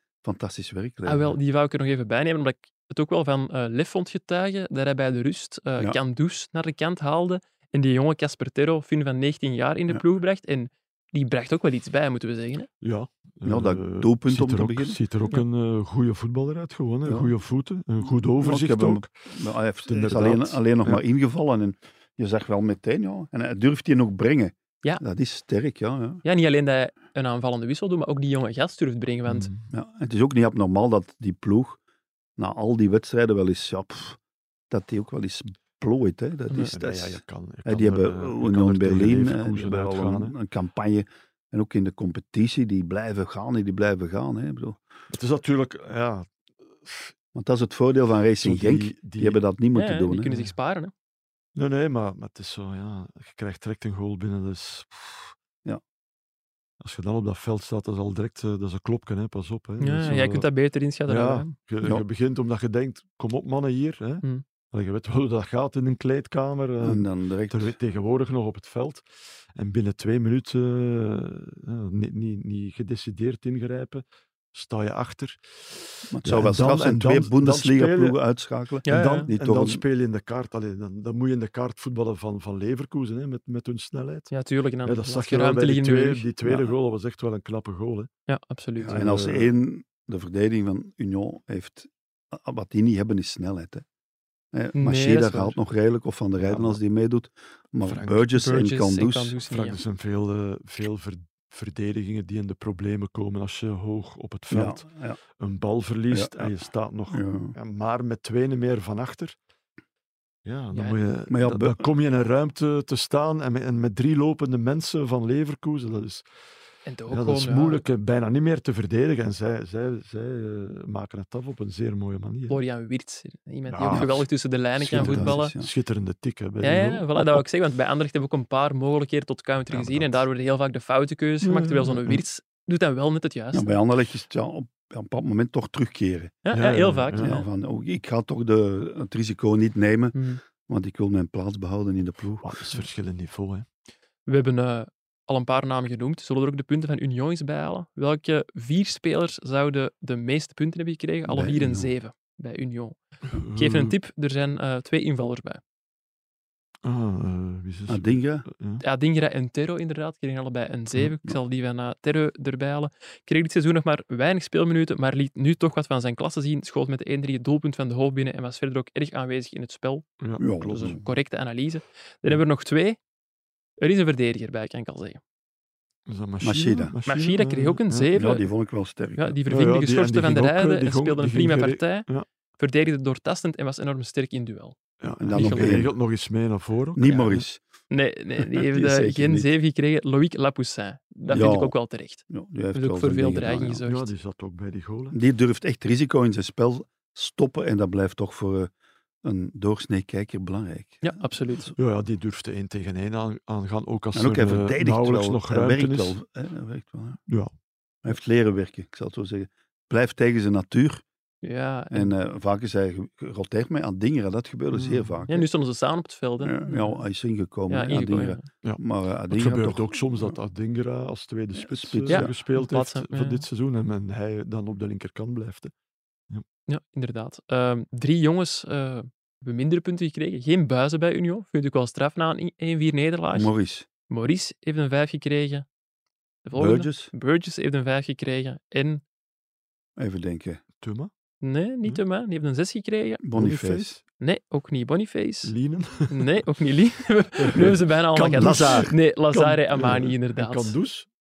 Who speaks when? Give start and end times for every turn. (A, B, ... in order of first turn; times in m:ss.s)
0:00.2-0:01.4 A
0:01.0-0:12.7 B
0:12.8-0:19.1 C
0:13.4-0:15.0 A
0:17.0-0:17.3 A
0:18.4-0:26.2 A
0:19.9-0:21.0 C
0:26.2-0:29.5 B
0:29.3-0:29.7 C
0:29.7-0:31.8 A
0:32.4-0:34.2 A
0:34.7-0:44.8 A
0:36.7-0:40.3 C
0:45.1-0:46.3 C
0:46.8-0:47.1 C
0:47.3-0:50.5 A
0:48.4-0:49.4 C
0:49.7-0:50.9 B
0:51.6-0:55.3 C
0:56.8-1:00.5 C
0:59.8-1:01.5 B
1:01.1-1:18.2 C
1:06.8-1:07.7 A
1:16.1-1:19.8 A
1:18.8-1:24.3 C
1:18.9-1:19.3 B
1:24.3-1:26.3 B
1:24.8-1:28.1 C
1:28.3-1:29.0 B
1:28.8-1:33.8 A
1:28.9-1:29.5 C
1:34.5-1:39.4 A
1:34.7-1:35.6 B
1:36.4-1:36.8 C
1:37.8-1:38.2 C
1:38.4-1:39.8 B
1:39.5-1:44.9 C
1:44.5-1:45.2 A
1:45.4-1:49.4 C
1:46.1-1:46.5 A
1:47.1-1:47.5 A
1:50.4-1:56.2 C
1:50.7-1:51.0 B
1:51.3-1:51.8 A
1:56.9-1:57.8 B
1:57.1-2:02.6 C
2:02.5-2:05.5 B
2:03.7-2:04.3 C
2:04.8-2:07.4 C
2:04.8-2:05.7 A
2:06.6-2:13.7 B
2:09.7-2:10.2 C
2:11.4-2:12.2 C
2:13.5-2:16.4 A
2:16.4-2:17.4 B
2:16.5-2:17.3 C
2:17.2-2:22.5 A
2:20.1-2:20.4 B
2:22.4-2:23.6 C
2:24.2-2:33.0 B
2:31.3-2:31.9 A
2:33.3-2:33.9 C
2:33.5-2:35.6 B
2:36.8-2:38.8 C
2:37.9-2:38.4 A
2:38.8-2:50.0 B
2:50.2-2:51.0 C
2:50.4-2:51.0 A
2:50.6-2:53.0 B
2:53.8-2:55.2 B
2:56.1-2:58.1 C
2:56.4-2:56.9 A
2:57.1-2:58.4 B
2:58.1-2:59.4 A
2:59.1-3:04.8 B
2:59.5-3:02.2 C
3:05.0-3:07.4 C
3:05.2-3:05.9 A
3:05.3-3:05.8 B
3:06.9-3:07.6 A
3:07.9-3:14.1 B
3:08.4-3:09.5 A
3:11.3-3:11.8 A
3:12.3-3:13.8 A
3:13.9-3:15.2 C
3:15.1-3:18.7 A
3:19.2-3:21.7 A
3:21.0-3:21.7 B
3:21.8-3:26.2 C
3:24.1-3:27.2 A
3:28.0-3:31.0 A
3:31.4-3:32.1 B
3:31.9-3:35.5 A
3:34.7-3:35.2 C
3:35.3-3:37.0 B
3:36.4-3:40.4 A
3:37.7-3:38.4 B
3:38.6-3:45.7 C
3:41.6-3:42.3 A
3:42.1-3:43.4 B
3:46.7-3:53.5 B
3:53.3-3:53.9 A
3:54.1-3:55.6 B
3:56.4-3:59.0 B
3:56.5-3:57.1 A
4:00.0-4:00.6 A
4:00.8-4:01.1 C
4:01.4-4:03.2 B
4:03.2-4:04.0 A
4:03.4-4:04.0 C
4:04.2-4:05.5 B
4:05.4-4:06.3 C
4:06.1-4:10.7 B
4:07.4-4:11.1 C
4:08.4-4:08.9 A